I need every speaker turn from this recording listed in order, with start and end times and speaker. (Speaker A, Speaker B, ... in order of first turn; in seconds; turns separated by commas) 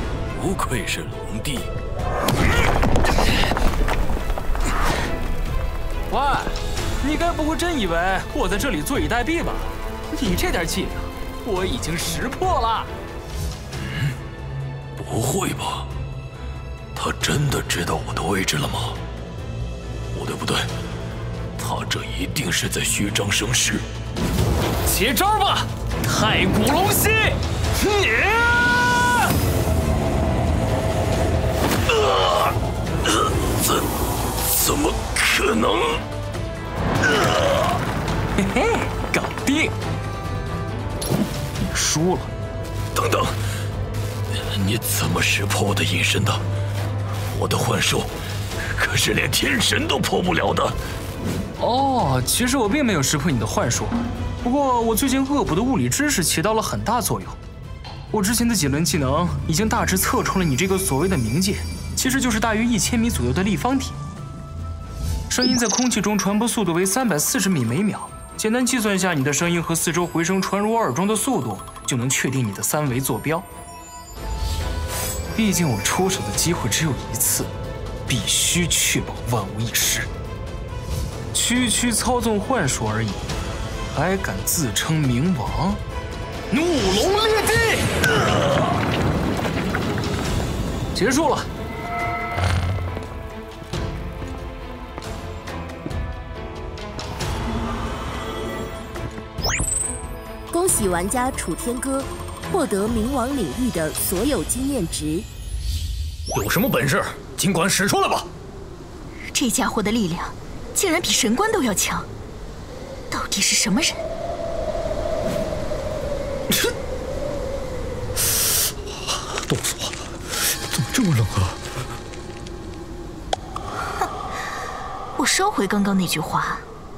Speaker A: 0.3-1.7, Speaker B: 6.1-12.9, Speaker A: 15.0-15.9, Speaker A: 16.9-19.0, Speaker A: 20.1-20.7, Speaker A: 21.6-23.8, Speaker B: 24.9-29.1, Speaker A: 31.9-32.5, Speaker A: 34.5-36.0, Speaker A: 37.1-37.4, Speaker B: 38.4-39.7, Speaker B: 41.6-42.3, Speaker A: 43.0-43.3, Speaker A: 44.5-46.4, Speaker A: 47.3-48.1, Speaker A: 48.8-50.8, Speaker B: 51.6-57.4, Speaker B: 58.1-64.0, Speaker B: 65.3-73.5, Speaker B: 75.3-77.5, Speaker B: 78.1-80.1, Speaker B: 81.3-83.2, Speaker B: 83.9-85.8, Speaker B: 86.5-88.0, Speaker B: 90.9-91.5, Speaker C: 100.5-105.3, Speaker D: 106.3-108.2, Speaker E: 109.3-112.1, Speaker E: 113.1-114.0, Speaker D: 119.5-119.9, Speaker D: 120.8-121.5, Speaker E: 125.2-126.6